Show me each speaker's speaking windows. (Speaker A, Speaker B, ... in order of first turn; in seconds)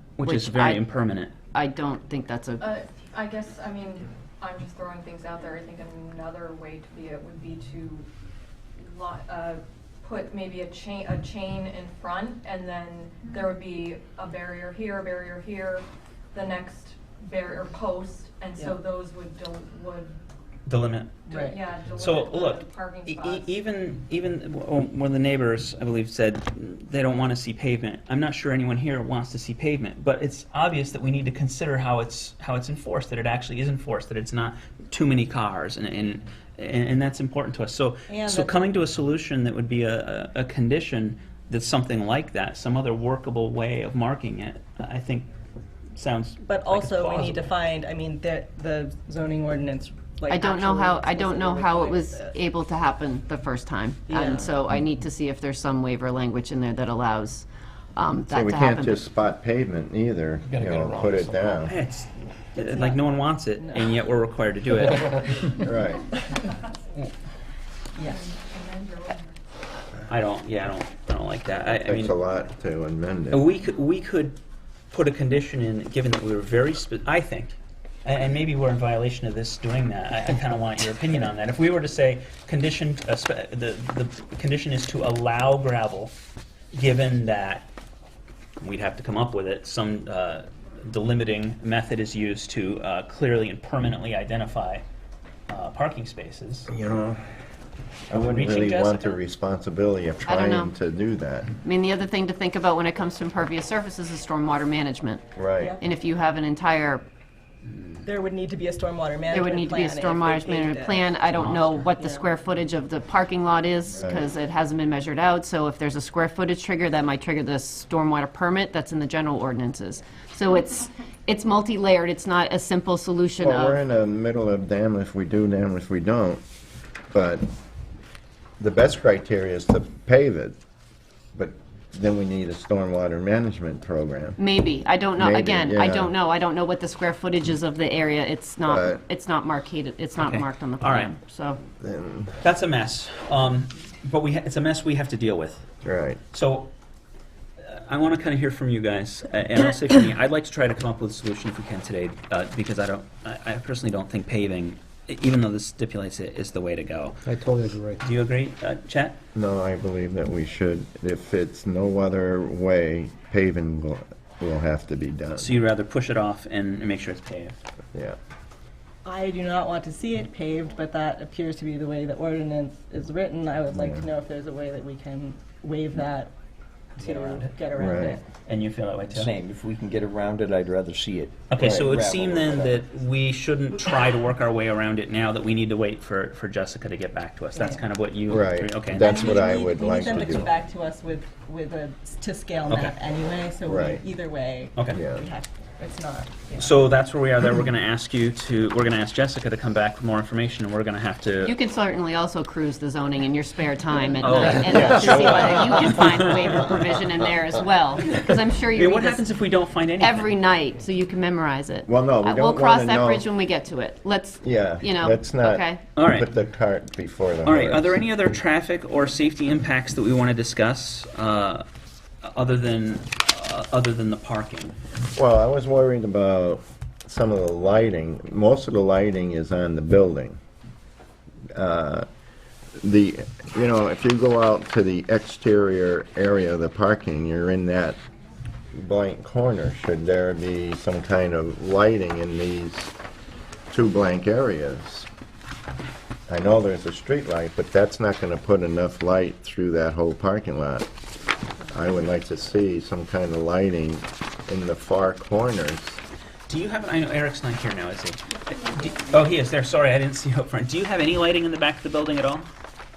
Speaker A: 0.2-1.3, 20.6-21.2, 21.9-45.3, 45.9-47.5, 61.6-65.4, 70.1-72.1, 73.3-74.4, 74.9-86.1, 86.7-87.7, 88.6-94.8, 95.5-96.7, 98.2-99.2, 140.2-141.1, 142.4-145.6, 146.3-146.7, 147.6-159.2, 165.4-167.6, 178.4-179.3, 181.5-189.5, 192.7-193.0, 196.6-201.5, 204.2-206.6, 208.7-210.3, 215.9-216.3, 217.4-221.7, 222.2-224.7, 256.5-262.5
Speaker B: 0.2-0.8, 1.5-2.6, 50.3-59.0, 100.2-100.7, 101.6-107.0, 109.3-123.8, 134.4-141.6, 201.4-209.2, 210.0-215.8
Speaker C: 2.6-8.1, 8.8-20.2, 21.2-23.5, 68.0-69.3
Speaker D: 21.3-21.6, 38.1-38.6, 46.5-52.4, 54.1-54.6, 62.6-63.0, 63.6-64.0, 68.0-68.3, 108.0-112.3, 169.0-176.3, 177.0-178.2, 187.5-187.8, 188.9-196.7, 205.1-205.5
Speaker E: 58.3-61.8, 65.6-66.1, 71.7-73.5, 96.7-97.2, 98.1-101.5, 105.3-105.8, 113.9-114.3, 123.4-126.4, 127.1-127.4, 128.6-130.6, 131.3-134.4, 135.2-136.1, 138.7-139.0, 141.8-142.4, 145.8-146.2, 159.3-165.6, 173.7-174.1, 177.8-178.2, 181.6-181.9, 188.3-190.5, 193.6-194.0, 194.9-195.2, 204.6-206.0, 211.9-213.2, 214.4-218.0, 225.1-230.4, 231.5-232.1, 232.8-238.0, 238.7-242.9, 243.7-245.1, 246.3-250.9, 251.7-256.0
Speaker F: 60.5-61.6, 157.4-157.9, 177.0-177.5, 179.1-182.8